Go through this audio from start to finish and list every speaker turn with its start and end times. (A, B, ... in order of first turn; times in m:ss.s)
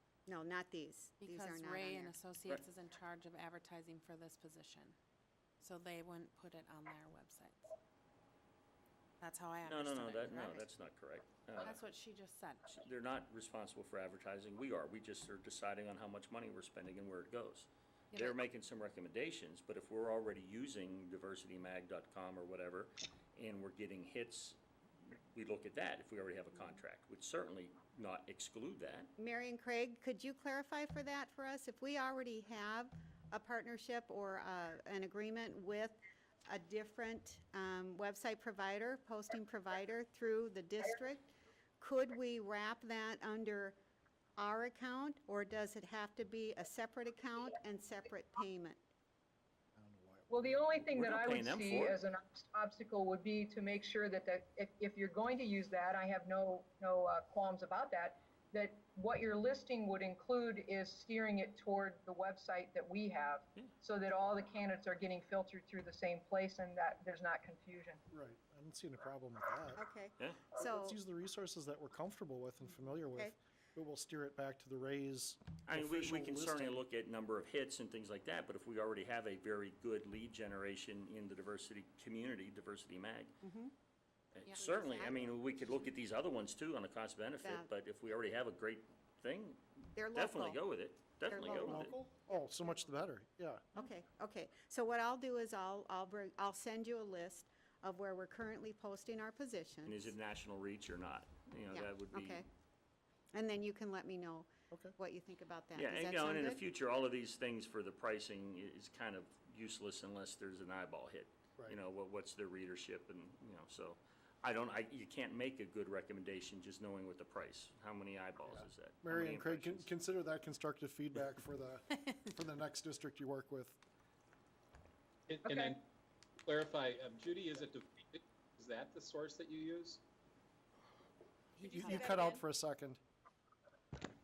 0:00.3-0:02.1 A
0:01.2-0:05.0 B
0:05.6-0:07.7 B
0:09.2-0:10.7 B
0:09.6-0:11.8 C
0:11.6-0:12.8 B
0:12.7-0:29.1 C
0:18.1-0:18.4 B
0:29.2-0:43.8 A
0:44.4-0:48.8 A
0:49.8-0:50.9 D
0:50.3-1:08.0 E
0:50.9-0:52.0 C
1:08.1-1:09.8 D
1:09.8-1:11.0 A
1:10.6-1:16.8 D
1:15.6-1:23.3 C
1:23.4-1:23.7 A
1:24.4-1:31.9 C
1:24.5-1:25.5 A
1:27.4-1:27.7 A
1:29.9-1:30.6 A
1:31.3-1:32.4 A
1:31.6-1:33.7 D
1:33.8-1:40.1 A
1:39.8-1:42.4 C
1:41.7-1:42.4 A
1:43.3-1:46.6 A
1:44.7-1:45.0 D
1:45.8-1:59.9 C
1:58.5-2:03.8 D
2:05.3-2:05.8 F
2:05.4-2:05.8 E
2:06.4-2:10.0 F
2:11.6-2:12.4 B
2:11.6-2:13.0 D